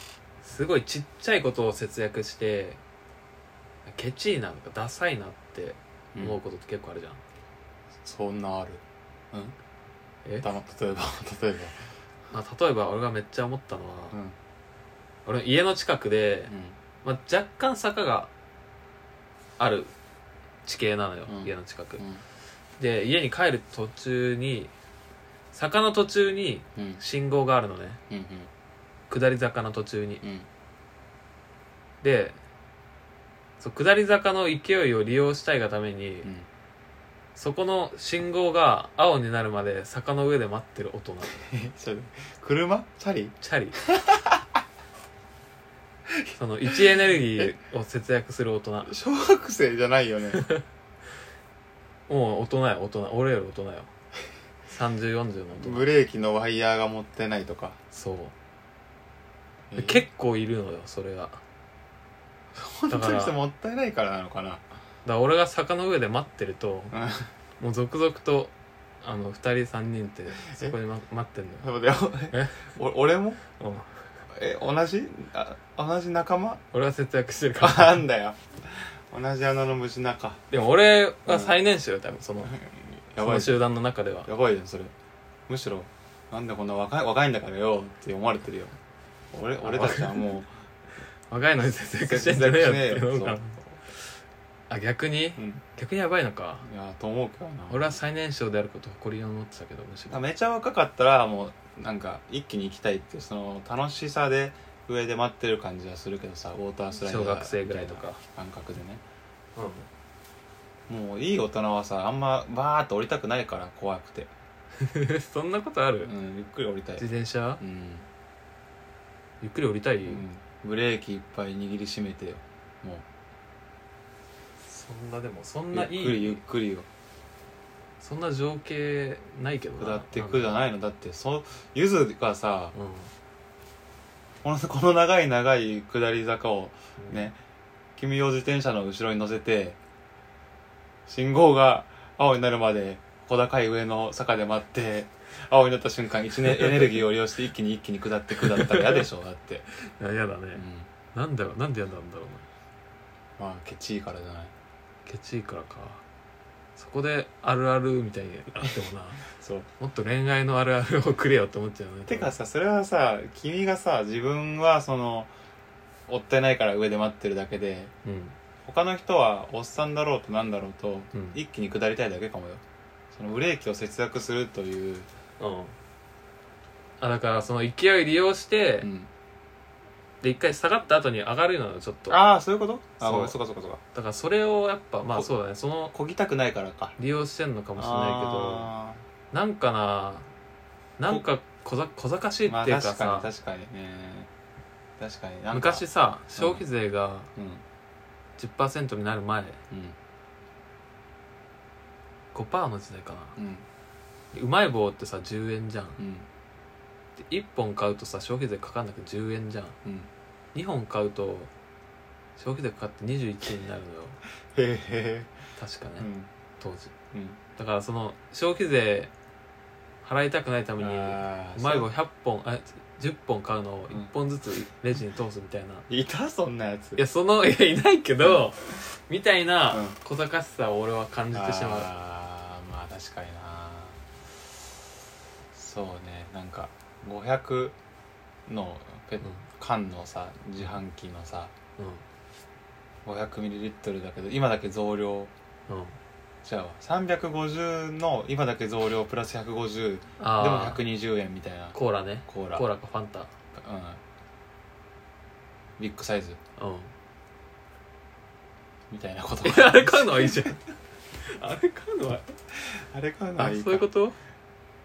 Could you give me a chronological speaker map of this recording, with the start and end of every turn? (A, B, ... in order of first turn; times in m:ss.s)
0:00.4-0:02.8 A
0:03.9-0:07.2 A
0:06.1-0:06.4 B
0:08.0-0:09.6 B
0:10.4-0:11.8 B
0:12.3-0:14.2 A
0:15.3-0:16.5 A
0:16.5-0:16.8 B
0:17.0-0:18.3 A
0:19.6-0:19.9 A
0:20.6-0:22.0 A
0:21.3-0:22.2 B
0:22.8-0:24.7 A
0:25.5-0:28.0 A
0:26.8-0:27.0 B
0:28.1-0:28.5 B
0:29.1-0:30.2 A
0:30.2-0:30.5 B
0:32.0-0:32.4 A
0:33.6-0:36.3 A
0:37.4-0:41.4 A
0:41.3-0:44.4 B
0:43.4-0:43.8 A
0:46.2-0:47.5 B
0:46.4-0:48.9 A
0:48.8-0:50.5 B
0:52.1-0:53.9 A
0:54.7-0:55.9 A
0:55.6-0:57.8 B
0:57.9-0:58.3 A
0:59.7-1:00.0 B
0:59.8-1:01.4 A
1:02.6-1:04.6 B
1:02.9-1:03.4 A
1:05.0-1:07.0 A
1:06.9-1:07.3 B
1:07.6-1:11.7 A
1:11.6-1:13.4 B
1:12.3-1:12.7 A
1:13.6-1:13.9 A
1:14.3-1:16.6 B
1:16.7-1:18.0 A
1:17.6-1:20.4 B
1:20.5-1:22.6 A
1:21.3-1:21.5 B
1:22.5-1:23.6 B
1:23.2-1:24.3 A
1:24.3-1:24.9 B
1:25.5-1:28.8 B
1:29.3-1:30.5 B
1:29.6-1:30.2 A
1:31.3-1:33.6 A
1:32.0-1:33.4 B
1:34.7-1:36.6 A
1:35.4-1:35.6 B
1:36.6-1:37.9 B
1:37.7-1:40.2 A
1:40.1-1:49.0 B
1:47.0-1:48.2 A
1:49.6-1:49.9 A
1:50.9-1:54.3 B
1:54.8-1:56.1 A
1:56.0-1:57.1 B
1:57.0-1:57.6 A
1:57.6-1:58.1 B
1:59.4-2:00.2 A
2:00.1-2:03.0 B
2:04.7-2:06.4 A
2:05.7-2:06.9 B
2:08.0-2:10.6 A
2:09.8-2:12.8 B
2:12.8-2:13.1 A
2:14.4-2:17.4 B
2:18.0-2:19.8 B
2:21.1-2:29.7 B
2:28.4-2:29.0 A
2:29.8-2:32.4 A
2:30.6-2:30.9 B
2:33.4-2:34.5 B
2:35.1-2:36.0 A
2:36.8-2:39.2 A
2:39.4-2:39.7 B
2:39.8-2:42.3 A
2:42.1-2:45.3 B
2:46.1-2:47.9 B
2:48.0-2:48.4 A
2:48.6-2:52.6 B
2:51.1-2:51.4 A
2:53.1-2:55.1 B
2:55.4-2:55.7 A
2:57.0-2:58.9 A
2:58.8-2:59.1 B
3:00.2-3:02.2 A
3:02.1-3:03.8 B
3:03.0-3:03.4 A
3:03.9-3:05.9 A
3:05.9-3:07.0 B
3:07.0-3:08.7 A
3:07.8-3:09.0 B
3:09.3-3:10.3 A
3:11.0-3:13.3 A
3:12.5-3:14.3 B
3:15.0-3:15.8 B
3:15.5-3:17.3 A
3:16.4-3:16.6 B
3:17.4-3:17.6 B
3:18.4-3:19.6 A
3:19.7-3:20.0 B
3:22.3-3:23.3 A
3:23.4-3:23.6 B
3:24.3-3:26.0 A
3:26.0-3:26.3 B
3:27.2-3:29.8 A
3:30.5-3:31.5 A
3:32.4-3:34.2 A
3:34.5-3:35.3 B
3:35.6-3:36.1 A
3:36.0-3:36.3 B
3:36.6-3:36.9 A
3:37.1-3:37.4 B
3:37.6-3:39.1 A
3:40.0-3:45.9 A
3:40.8-3:41.9 B
3:45.9-3:47.0 B
3:47.0-3:51.9 A
3:49.7-3:50.0 B
3:51.3-3:54.0 B
3:55.5-3:57.8 B
3:58.5-4:01.5 B
4:01.8-4:02.0 A
4:03.0-4:05.3 B
4:05.7-4:06.0 A
4:06.4-4:11.8 B
4:10.2-4:10.8 A
4:11.7-4:13.3 A
4:12.3-4:12.7 B
4:13.6-4:14.0 B
4:15.8-4:16.4 B
4:16.6-4:16.9 A
4:18.9-4:20.6 B
4:19.4-4:20.6 A
4:21.2-4:22.3 A
4:22.7-4:23.9 B
4:23.4-4:24.2 A